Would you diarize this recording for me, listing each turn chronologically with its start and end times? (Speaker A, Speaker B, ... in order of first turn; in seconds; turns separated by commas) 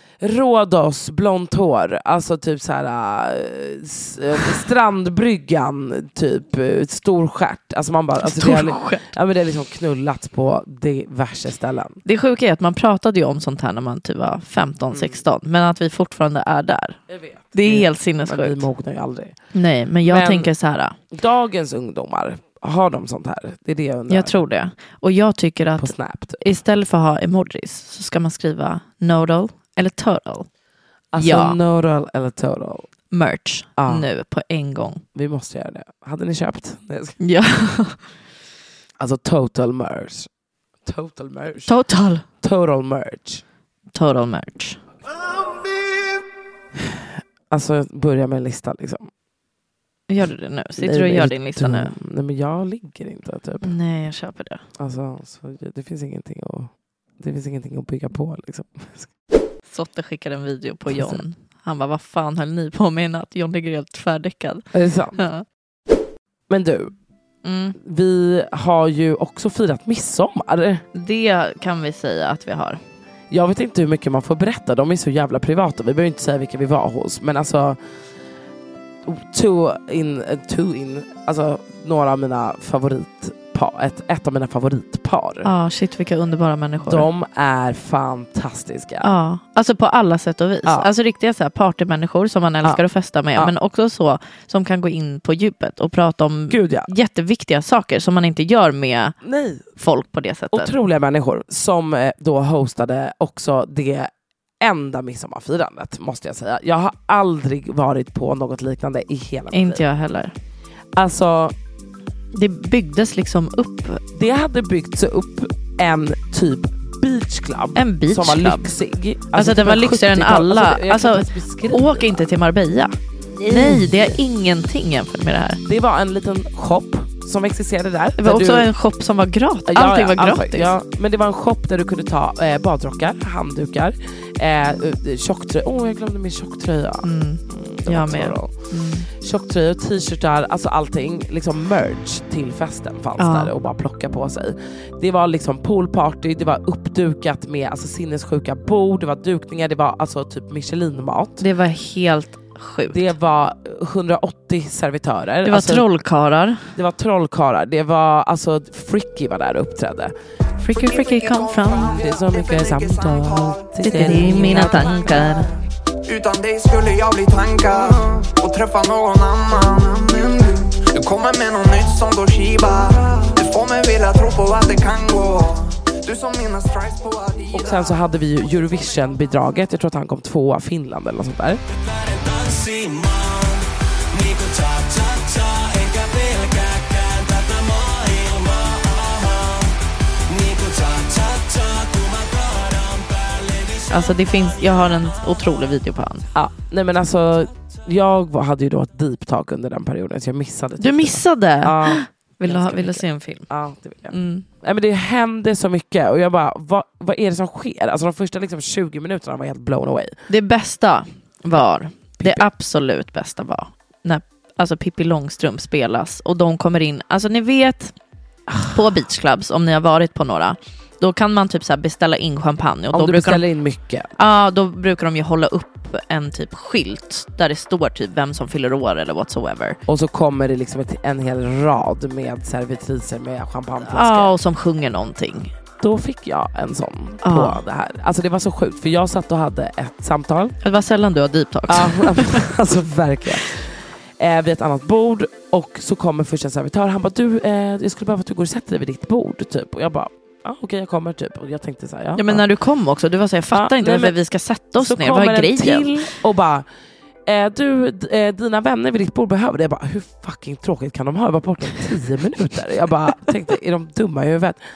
Speaker A: 0.2-12.0, Speaker B: 8.2-9.0, Speaker B: 12.1-17.0, Speaker A: 14.9-15.2, Speaker A: 17.1-19.4, Speaker B: 17.5-18.6, Speaker B: 19.5-21.0, Speaker A: 20.0-20.5, Speaker A: 21.1-24.4, Speaker B: 24.1-30.5, Speaker A: 25.8-26.4, Speaker A: 31.1-32.9, Speaker B: 31.2-31.6, Speaker B: 33.1-35.0, Speaker A: 33.8-34.1, Speaker A: 35.1-37.2, Speaker B: 37.2-38.0, Speaker A: 39.0-40.3, Speaker A: 40.9-41.7, Speaker B: 41.7-42.2, Speaker A: 42.4-43.4, Speaker B: 43.9-44.8, Speaker A: 46.8-49.1, Speaker B: 50.1-51.9, Speaker A: 50.8-53.7, Speaker B: 53.6-54.6, Speaker A: 54.8-59.1, Speaker B: 59.7-64.7, Speaker A: 60.9-61.2, Speaker A: 64.7-65.2, Speaker B: 65.2-65.4, Speaker A: 66.5-66.9, Speaker B: 67.4-67.8, Speaker A: 67.8-70.8, Speaker B: 71.0-72.8, Speaker A: 73.3-77.8, Speaker A: 79.0-85.5, Speaker B: 85.4-87.1, Speaker A: 86.8-89.1, Speaker B: 89.0-99.2, Speaker A: 96.5-96.9, Speaker A: 99.2-99.7, Speaker B: 99.8-100.7, Speaker A: 100.5-109.8, Speaker B: 109.5-110.3, Speaker A: 111.0-111.5, Speaker B: 112.3-114.0, Speaker A: 114.1-122.2, Speaker B: 117.8-118.7, Speaker B: 119.3-123.0, Speaker A: 123.4-124.2, Speaker B: 123.5-125.6, Speaker A: 125.7-128.7, Speaker B: 128.2-130.7, Speaker A: 129.7-138.5, Speaker B: 137.0-139.1, Speaker A: 139.1-151.4, Speaker B: 143.2-143.5, Speaker B: 151.4-153.1, Speaker A: 152.9-155.9, Speaker B: 155.5-156.7, Speaker A: 156.8-160.1, Speaker B: 160.6-162.0, Speaker C: 160.8-165.1, Speaker A: 161.8-165.4, Speaker B: 163.8-165.5, Speaker C: 166.1-178.0, Speaker A: 177.5-181.6, Speaker B: 193.9-196.2, Speaker A: 196.3-210.2, Speaker B: 200.8-203.5, Speaker B: 204.1-204.5, Speaker B: 210.3-217.9, Speaker A: 212.2-212.4, Speaker B: 218.7-223.4, Speaker A: 222.9-224.2, Speaker B: 224.2-229.8, Speaker A: 229.9-234.3, Speaker B: 233.9-235.5, Speaker A: 235.8-240.6, Speaker B: 237.2-237.6, Speaker B: 240.6-242.5, Speaker A: 241.7-252.4, Speaker B: 252.2-256.0, Speaker A: 253.5-254.2, Speaker A: 254.8-256.7, Speaker A: 257.3-264.6